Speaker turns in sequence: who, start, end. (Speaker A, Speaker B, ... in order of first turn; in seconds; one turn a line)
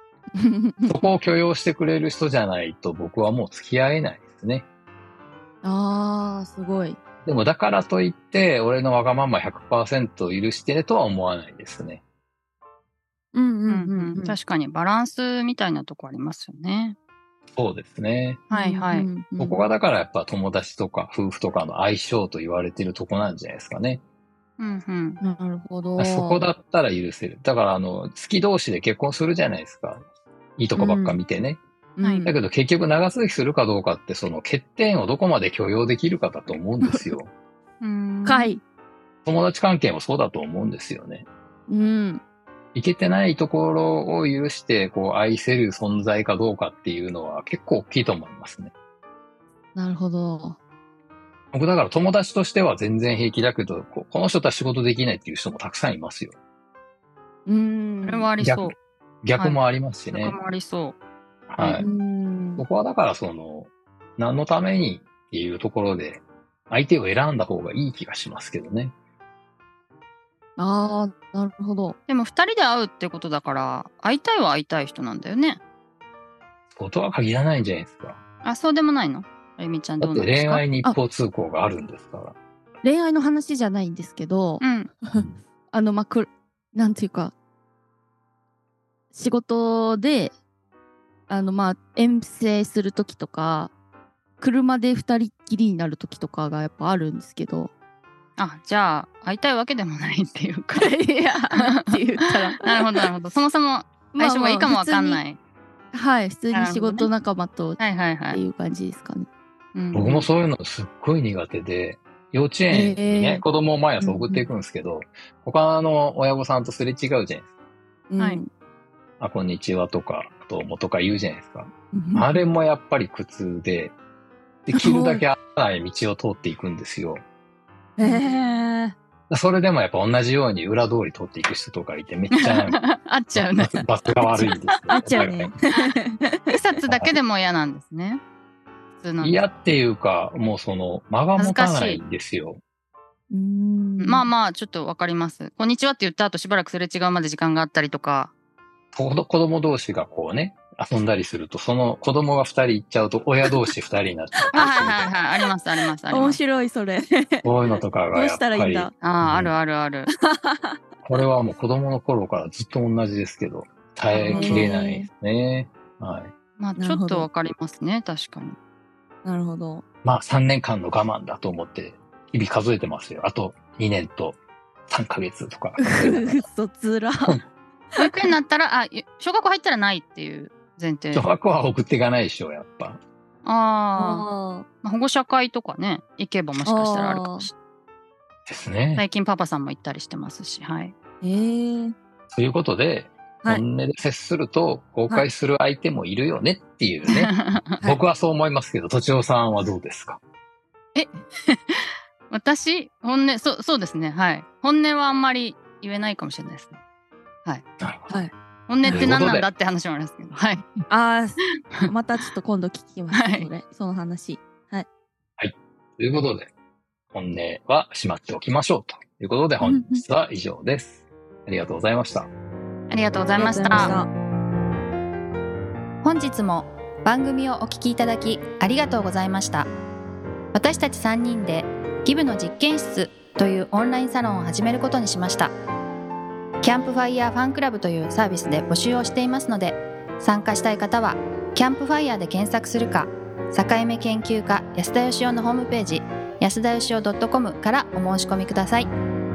Speaker A: 0.3-1.0
Speaker B: 0.9-4.6
Speaker A: 5.6-7.0
Speaker B: 7.2-12.0
Speaker A: 13.3-14.3
Speaker C: 13.7-16.9
Speaker B: 17.5-18.4
Speaker C: 18.5-19.1
Speaker A: 18.5-19.7
Speaker B: 19.4-24.0
Speaker C: 24.6-25.2
Speaker A: 25.2-26.5
Speaker B: 26.0-30.0
Speaker B: 30.6-31.6
Speaker A: 30.8-31.2
Speaker A: 32.0-32.3
Speaker B: 32.2-37.3
Speaker A: 36.8-37.1
Speaker C: 37.8-38.5
Speaker A: 38.2-38.6
Speaker B: 39.2-41.3
Speaker A: 41.7-42.2
Speaker B: 42.7-48.7
Speaker A: 49.7-50.6
Speaker B: 51.5-56.3
Speaker A: 57.5-58.3
Speaker C: 58.0-58.7
Speaker B: 58.4-58.7
Speaker B: 59.2-60.3
Speaker C: 60.1-61.0
Speaker B: 61.5-61.9
Speaker A: 61.8-62.6
Speaker B: 62.6-68.9
Speaker A: 70.6-72.0
Speaker C: 72.1-75.6
Speaker B: 76.7-78.2
Speaker C: 78.4-80.6
Speaker B: 80.0-82.3
Speaker A: 80.7-81.0
Speaker A: 82.8-87.3
Speaker C: 84.6-84.9
Speaker A: 89.1-90.3
Speaker A: 91.3-93.7
Speaker A: 94.4-97.7
Speaker C: 98.4-100.9
Speaker A: 100.8-103.1
Speaker C: 101.6-101.9
Speaker C: 102.6-105.4
Speaker A: 104.1-105.2
Speaker A: 105.9-107.8
Speaker C: 106.5-107.1
Speaker C: 107.8-108.4
Speaker A: 108.3-109.3
Speaker C: 109.7-110.3
Speaker B: 109.9-117.5
Speaker A: 112.7-113.4
Speaker A: 114.0-114.4
Speaker A: 118.1-118.5
Speaker B: 119.2-123.9
Speaker A: 121.9-122.3
Speaker B: 124.7-127.2
Speaker A: 124.7-125.2
Speaker A: 128.0-128.9
Speaker C: 128.0-128.4
Speaker B: 129.3-132.8
Speaker C: 132.4-133.8
Speaker B: 133.3-135.5
Speaker A: 134.2-136.5
Speaker C: 136.5-138.2
Speaker B: 136.9-137.1
Speaker C: 139.0-139.4
Speaker B: 139.2-142.6
Speaker C: 141.3-142.0
Speaker A: 143.3-144.3
Speaker C: 144.0-148.3
Speaker B: 148.9-155.1
Speaker A: 154.5-154.9
Speaker C: 154.5-156.4
Speaker A: 156.1-157.5
Speaker B: 157.4-159.5
Speaker A: 158.1-158.9
Speaker C: 159.0-160.1
Speaker A: 160.3-160.8
Speaker B: 161.0-166.3
Speaker C: 164.1-164.7
Speaker A: 164.2-165.1
Speaker C: 166.6-168.6
Speaker A: 166.8-167.3
Speaker A: 169.2-169.8
Speaker B: 170.0-176.4
Speaker A: 175.8-177.4
Speaker C: 178.0-181.3
Speaker B: 181.1-183.0
Speaker C: 183.4-184.2
Speaker A: 184.0-184.6
Speaker C: 184.8-187.5
Speaker A: 186.6-187.5
Speaker B: 188.4-189.0
Speaker C: 189.0-190.9
Speaker A: 191.2-191.9
Speaker B: 192.3-200.2
Speaker C: 197.1-197.6
Speaker C: 200.9-206.8
Speaker B: 207.8-208.2
Speaker C: 208.7-210.8
Speaker B: 208.8-209.5
Speaker A: 208.9-209.1
Speaker A: 210.9-214.9
Speaker C: 213.1-213.5
Speaker B: 215.4-216.5
Speaker B: 217.1-222.3
Speaker A: 219.6-220.0
Speaker C: 222.9-223.9
Speaker A: 223.4-224.1
Speaker D: 226.0-229.7
Speaker D: 230.5-235.5
Speaker D: 236.6-248.9